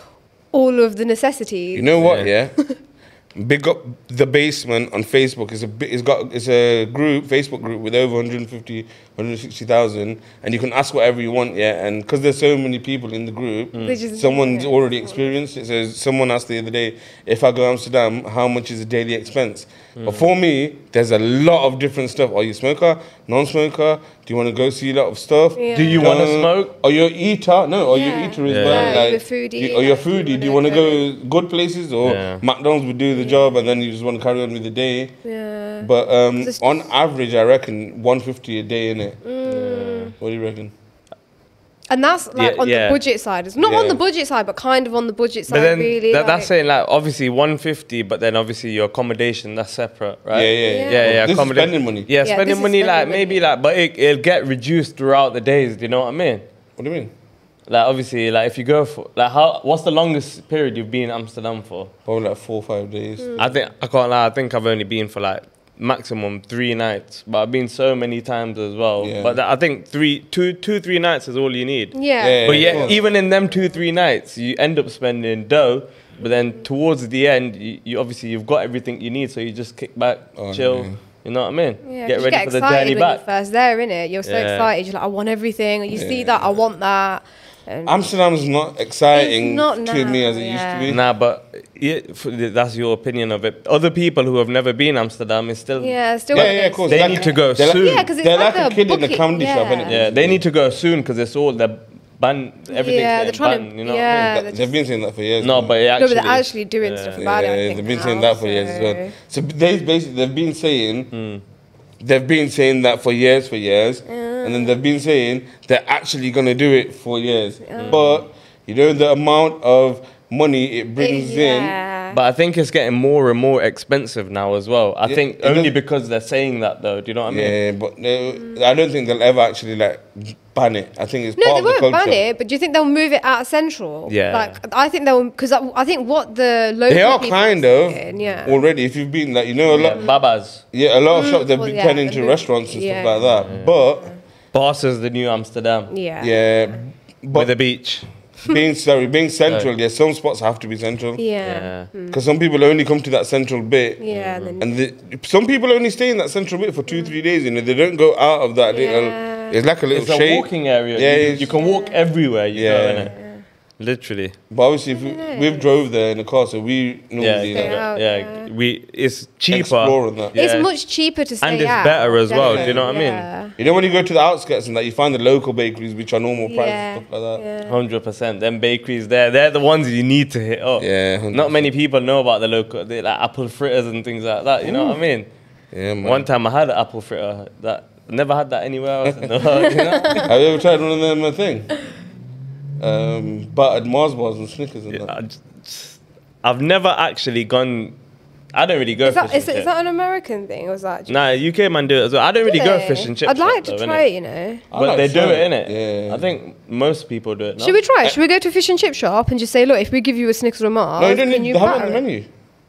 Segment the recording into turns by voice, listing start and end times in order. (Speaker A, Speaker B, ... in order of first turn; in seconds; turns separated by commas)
Speaker A: 0.5-1.9, Speaker B: 1.7-2.5, Speaker C: 2.0-2.3, Speaker B: 3.4-35.1, Speaker C: 13.7-14.0, Speaker A: 13.8-15.3, Speaker C: 20.0-20.3, Speaker A: 25.6-26.2, Speaker C: 25.7-26.7, Speaker A: 27.9-31.1, Speaker C: 28.5-29.1, Speaker C: 32.0-32.4, Speaker A: 33.1-33.5, Speaker A: 35.2-36.9, Speaker B: 35.8-39.2, Speaker A: 39.2-40.1, Speaker C: 39.5-40.1, Speaker B: 40.2-40.7, Speaker A: 41.9-46.5, Speaker C: 42.4-43.0, Speaker B: 43.6-43.9, Speaker C: 45.5-56.4, Speaker B: 50.3-52.1, Speaker A: 50.6-51.2, Speaker A: 52.2-53.5, Speaker B: 56.8-57.1, Speaker C: 57.7-61.9, Speaker B: 62.1-63.6, Speaker C: 63.4-83.2, Speaker B: 69.0-69.4, Speaker A: 71.9-72.9, Speaker B: 72.2-73.0, Speaker B: 80.4-81.0, Speaker A: 81.8-88.0, Speaker C: 84.2-84.7, Speaker B: 85.9-86.5, Speaker B: 87.9-91.0, Speaker A: 89.1-90.9, Speaker C: 90.9-98.1, Speaker A: 95.8-99.9, Speaker B: 96.3-100.4, Speaker C: 99.9-104.3, Speaker A: 102.7-104.7, Speaker B: 104.1-105.8, Speaker C: 105.4-107.2, Speaker A: 106.0-109.1, Speaker B: 107.2-111.1, Speaker C: 111.1-111.4, Speaker B: 112.0-121.7, Speaker A: 114.1-114.8, Speaker A: 117.6-118.1, Speaker C: 117.8-118.2, Speaker A: 121.0-122.2, Speaker C: 122.1-127.6, Speaker B: 125.0-125.7, Speaker B: 127.3-132.2, Speaker A: 131.4-138.6, Speaker C: 134.1-134.6, Speaker B: 136.9-140.0, Speaker C: 139.7-140.6, Speaker B: 140.7-144.1, Speaker A: 141.1-143.4, Speaker C: 143.4-143.7, Speaker C: 144.5-145.9, Speaker A: 145.9-146.8, Speaker B: 146.2-147.6, Speaker C: 147.3-148.1, Speaker B: 148.4-151.2, Speaker A: 151.2-152.2, Speaker C: 151.4-151.9, Speaker B: 152.1-154.0, Speaker A: 154.0-154.7, Speaker C: 154.1-154.6, Speaker B: 154.6-161.5, Speaker A: 158.7-159.6, Speaker C: 159.9-163.1, Speaker A: 161.4-162.0, Speaker B: 162.5-163.1, Speaker A: 163.1-163.4, Speaker C: 163.8-164.4, Speaker B: 164.5-167.8, Speaker A: 164.9-165.7, Speaker C: 167.2-170.7, Speaker A: 167.5-168.5, Speaker B: 169.5-170.3, Speaker A: 170.3-173.6, Speaker C: 171.4-173.3, Speaker B: 172.3-172.9, Speaker B: 173.6-177.4, Speaker A: 176.4-177.8, Speaker C: 177.7-185.3, Speaker B: 180.8-181.7, Speaker B: 185.7-186.3, Speaker C: 186.0-190.3, Speaker A: 189.6-190.3, Speaker B: 190.2-191.7, Speaker B: 192.8-195.1, Speaker C: 194.9-198.0, Speaker C: 198.5-199.7, Speaker A: 199.1-201.2, Speaker C: 201.1-204.0, Speaker A: 202.4-204.6, Speaker B: 204.7-206.3, Speaker C: 204.7-207.8, Speaker A: 207.6-212.0, Speaker B: 211.0-212.3